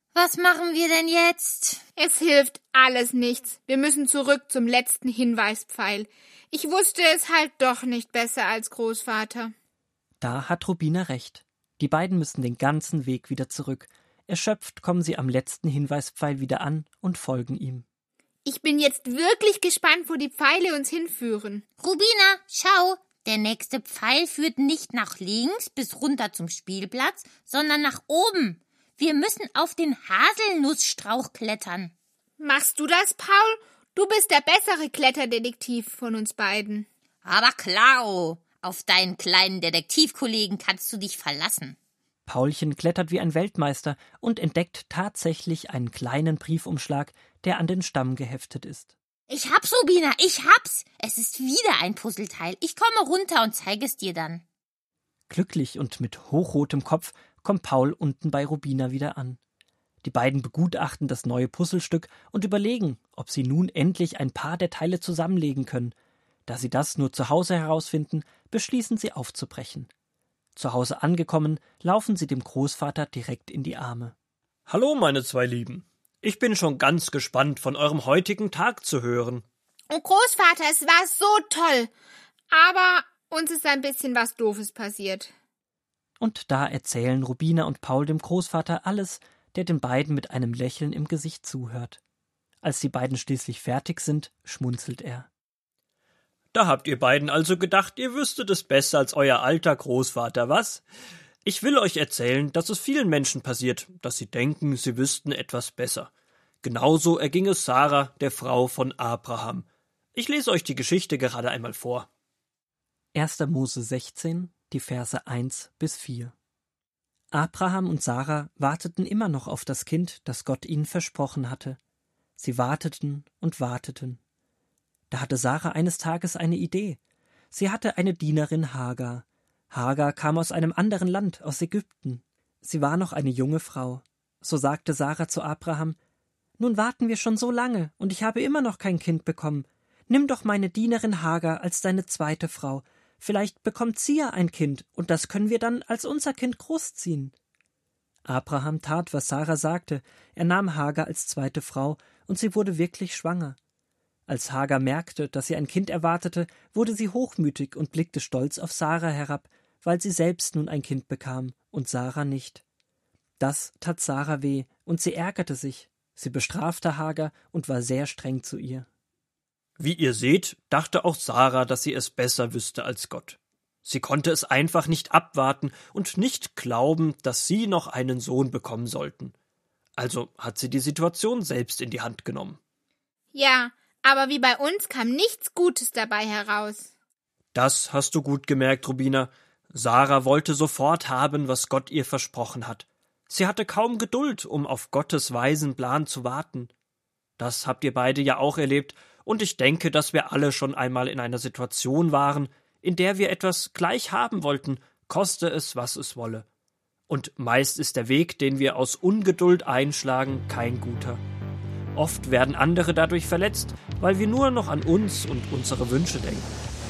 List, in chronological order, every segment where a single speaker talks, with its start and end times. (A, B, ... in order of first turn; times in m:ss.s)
0:00.1-0:01.8 A
0:02.0-0:09.5 B
0:10.2-0:17.8 C
0:18.4-0:21.6 B
0:21.8-0:31.9 A
0:32.4-0:36.9 B
0:37.2-0:41.8 A
0:42.2-0:48.9 C
0:49.3-0:54.4 A
0:55.3-0:59.4 C
1:00.0-1:05.9 C
1:06.5-1:09.9 C
1:10.6-1:14.1 C
1:14.7-1:19.4 D
1:19.9-1:21.9 B
1:22.5-1:25.3 B
1:26.2-1:32.0 C
1:32.6-1:35.3 C
1:36.5-1:40.8 D
1:41.4-1:46.1 D
1:46.6-1:52.1 D
1:53.1-1:56.3 C
1:57.3-2:01.8 C
2:02.4-2:04.2 C
2:05.1-2:07.0 C
2:07.5-2:16.0 C
2:16.6-2:27.3 C
2:28.2-2:33.6 C
2:34.3-2:42.6 C
2:43.4-2:48.9 C
2:49.8-2:59.3 D
2:54.5-2:56.8 C
3:00.0-3:02.6 D
3:00.4-3:01.0 C
3:03.3-3:06.9 B
3:07.5-3:12.7 D
3:13.3-3:16.6 D
3:14.2-3:15.2 C
3:16.4-3:16.7 C
3:17.4-3:26.4 D
3:21.5-3:23.7 C
3:24.7-3:26.4 C
3:27.1-3:31.1 D
3:30.0-3:31.2 C
3:32.0-3:36.3 D
3:32.2-3:36.4 C